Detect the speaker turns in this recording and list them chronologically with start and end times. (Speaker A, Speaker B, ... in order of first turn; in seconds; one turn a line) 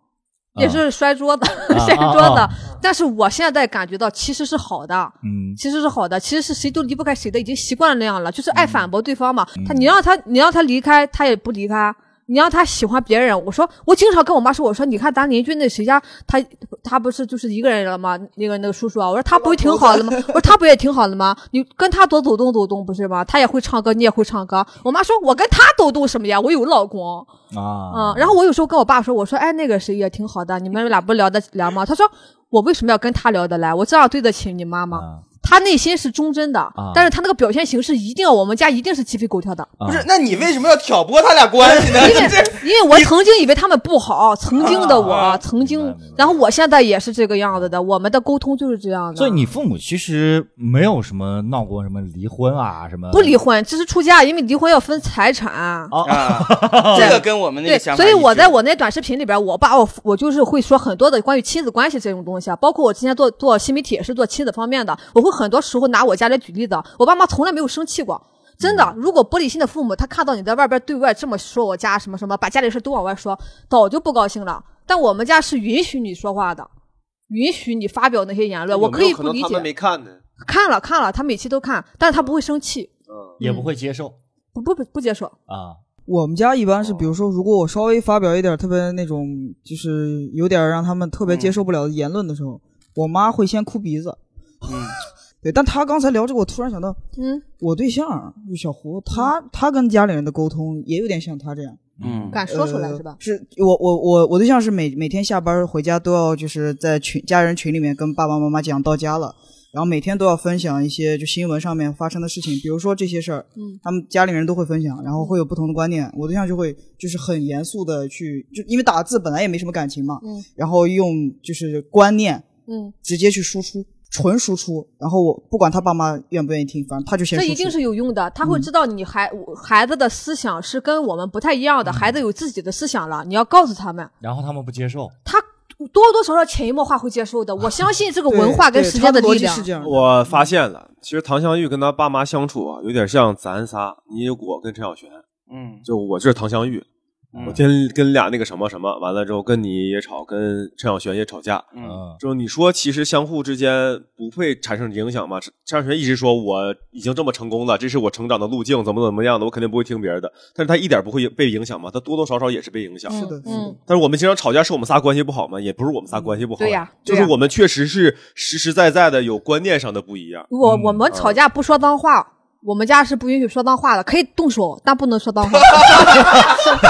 Speaker A: 0.5-0.8
Speaker B: 0.6-27.3
Speaker A: 1.7-2.5
Speaker A: 5.2-5.6
Speaker A: 8.5-8.8
Speaker A: 9.6-9.9
Speaker C: 19.3-20.4
Speaker A: 27.5-28.3
Speaker B: 27.9-39.7
Speaker A: 34.9-35.2
Speaker A: 36.8-37.1
Speaker A: 39.8-40.1
Speaker D: 39.9-43.1
Speaker B: 41.8-49.5
Speaker D: 44.6-45.4
Speaker A: 44.6-46.4
Speaker A: 49.1-53.4
Speaker B: 53.1-55.9
Speaker A: 55.9-57.2
Speaker D: 56.0-58.5
Speaker B: 56.9-76.7
Speaker A: 68.6-68.9
Speaker B: 77.3-79.7
Speaker E: 78.7-80.2
Speaker B: 80.4-83.7
Speaker E: 83.1-83.4
Speaker A: 83.4-84.2
Speaker B: 84.5-85.3
Speaker A: 85.5-85.8
Speaker C: 86.0-94.7
Speaker D: 91.3-91.5
Speaker D: 94.6-95.0
Speaker C: 95.4-97.0
Speaker B: 97.2-97.4
Speaker C: 97.6-101.8
Speaker A: 102.0-102.4
Speaker D: 102.0-102.4
Speaker B: 102.3-103.2
Speaker C: 102.5-122.5
Speaker B: 122.7-122.9
Speaker C: 123.0-127.8
Speaker B: 127.3-134.1
Speaker A: 131.8-132.2
Speaker A: 134.2-135.1
Speaker B: 135.2-139.7
Speaker C: 138.3-140.4
Speaker E: 139.8-145.2
Speaker D: 145.5-145.8
Speaker E: 145.8-146.8
Speaker D: 147.3-147.6
Speaker E: 147.4-151.7
Speaker A: 151.8-152.2
Speaker E: 152.2-163.2
Speaker B: 163.1-163.7
Speaker C: 163.1-163.8
Speaker E: 163.8-170.5
Speaker B: 166.6-167.3
Speaker B: 170.5-176.2
Speaker A: 170.6-171.0
Speaker E: 171.1-171.4
Speaker E: 175.7-176.1
Speaker A: 176.1-176.4